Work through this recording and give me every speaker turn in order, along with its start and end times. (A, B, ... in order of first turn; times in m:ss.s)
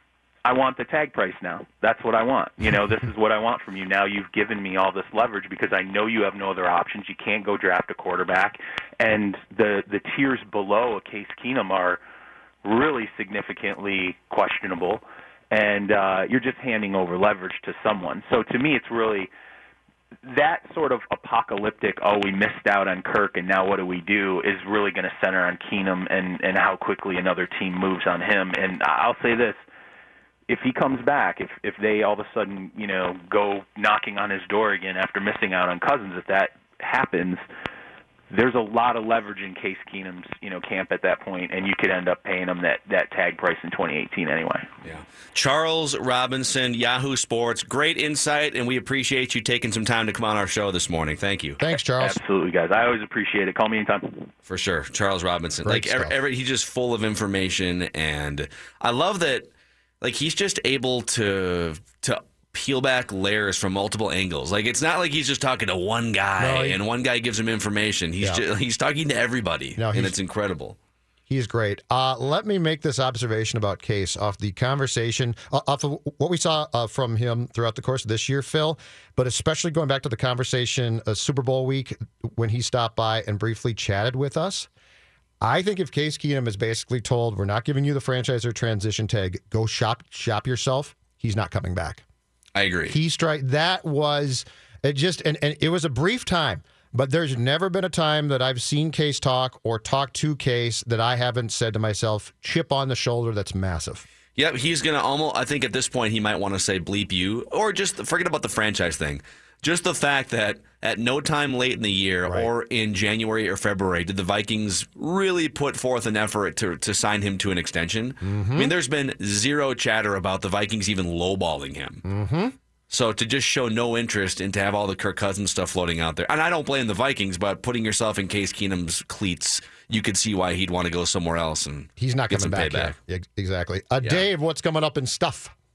0:00.4-0:12.0 A
0:12.6-0:19.3 A
0:20.2-0:29.6 A
0:30.5-0:37.4 A
0:38.3-0:44.7 A
0:44.8-0:51.6 B
0:51.6-0:52.2 C
0:52.0-0:54.3 A
0:54.5-0:59.5 B
0:55.6-0:56.2 C
1:00.0-1:10.8 B
1:06.4-1:06.8 C
1:09.8-1:10.2 C
1:11.3-1:24.7 C
1:25.4-1:32.0 C
1:32.6-1:33.0 B
1:32.9-1:44.0 C
1:44.4-2:02.0 B
1:58.2-1:58.7 C
2:02.0-2:02.6 C
2:02.9-2:13.0 B
2:12.0-2:15.5 C